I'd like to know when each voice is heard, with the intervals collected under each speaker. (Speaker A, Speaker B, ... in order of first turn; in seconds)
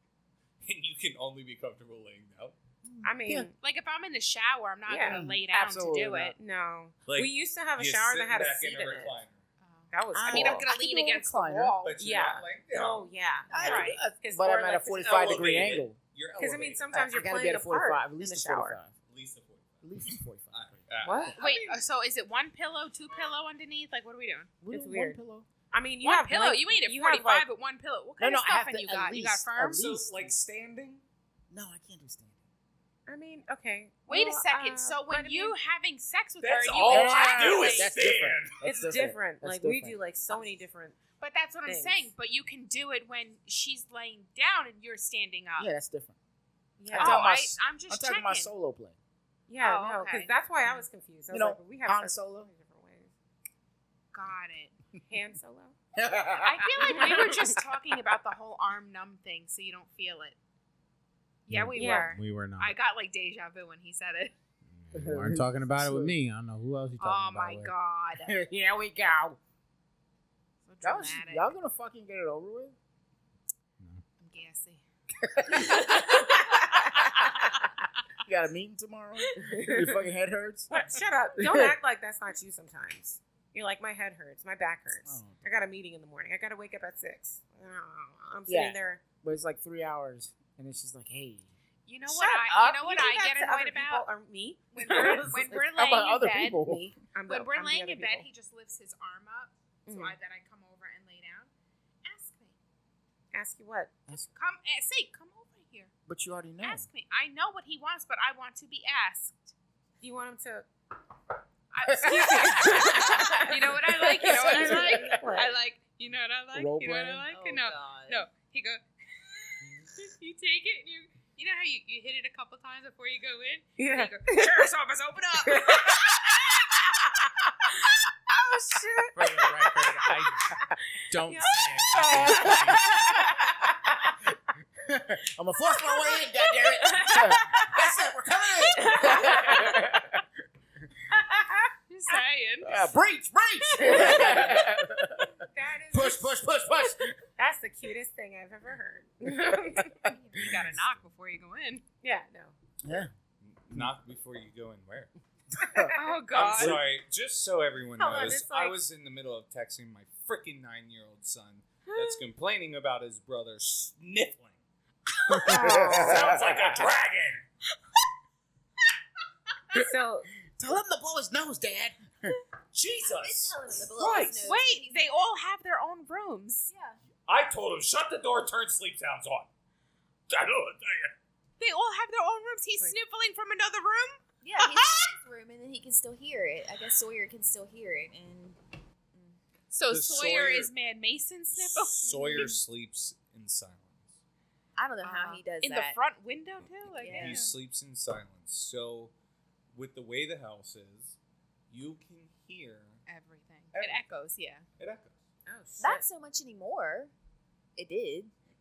Speaker A: 0.6-2.6, 7.1-9.4, 11.8-13.1, 15.0-16.9, 19.1-19.8, 20.5-21.8, 29.7-31.0, 36.4-38.6, 150.5-150.9, 153.4-155.1, 156.3-164.6, 165.9-167.4, 172.7-174.6, 177.3-179.5, 180.3-181.1, 189.9-190.7, 191.5-194.2, 197.1-199.1, 199.7-201.2, 201.7-203.0, 203.7-204.1, 204.8-205.2
Speaker B: 2.9-3.5, 5.1-6.3, 10.2-11.8, 13.5-16.0, 16.9-18.9, 19.8-21.2, 24.7-25.5, 28.2-30.4, 31.5-32.4, 36.9-40.0, 45.6-46.2, 46.9-49.0, 51.3-52.5, 56.0-57.1, 64.9-66.2, 68.2-69.4, 70.8-72.8, 75.2-76.3, 78.2-81.8, 85.0-85.6, 88.5-91.5, 95.3-96.9, 106.1-106.9, 112.0-113.2, 114.2-115.3, 116.5-117.3, 131.9-133.6, 134.8-140.2, 142.6-145.4, 145.9-147.2, 152.8-153.1, 165.3-166.8, 170.6-172.4
Speaker C: 3.0-3.5, 4.9-5.2, 6.4-9.2, 9.9-10.7, 12.0-15.3, 16.4-18.8, 21.0-21.4, 24.6-25.2, 25.7-27.5, 33.1-35.6, 38.6-41.0, 41.6-42.1, 46.8-47.3, 49.5-53.1, 55.1-55.8, 56.8-57.6, 61.8-62.1, 75.6-77.5, 79.3-80.0, 80.7-89.0, 92.1-95.9, 96.5-98.3, 99.9-100.2, 103.3-103.9, 110.0-110.7, 112.0-115.5, 123.8-124.7, 125.5-127.2, 128.3-130.6, 131.3-134.0, 136.6-138.0, 138.7-139.9, 141.1-141.7, 143.8-144.6, 145.4-150.2, 152.0-152.6, 155.6-156.2, 158.0-158.8, 165.4-166.6, 169.7-170.3, 205.5-206.1
Speaker D: 3.6-6.3, 9.6-12.0, 13.6-14.0, 21.4-24.5, 26.0-29.9, 34.1-37.9, 41.2-45.7, 47.0-48.5, 49.6-50.3, 54.1-54.8, 56.4-60.4, 61.5-64.3, 67.0-68.3, 70.7-71.5, 74.2-74.8, 91.9-94.0, 94.7-96.6, 97.3-101.5, 102.0-102.6, 104.3-105.9, 106.6-109.5, 111.7-126.8, 141.9-142.8, 143.8-144.4, 150.1-151.8, 155.9-156.8, 174.4-176.7, 181.6-185.1, 189.7-192.6, 195.0-197.5, 203.1-204.7
Speaker E: 61.5-62.8, 64.7-67.7, 129.2-130.5, 131.1-132.9
Speaker F: 117.3-118.2, 173.0-175.3, 176.7-177.0, 184.4-188.6, 189.1-189.4, 190.0-190.4, 192.0-192.5, 194.8-196.0, 196.9-197.4, 205.8-207.1, 207.8-208.3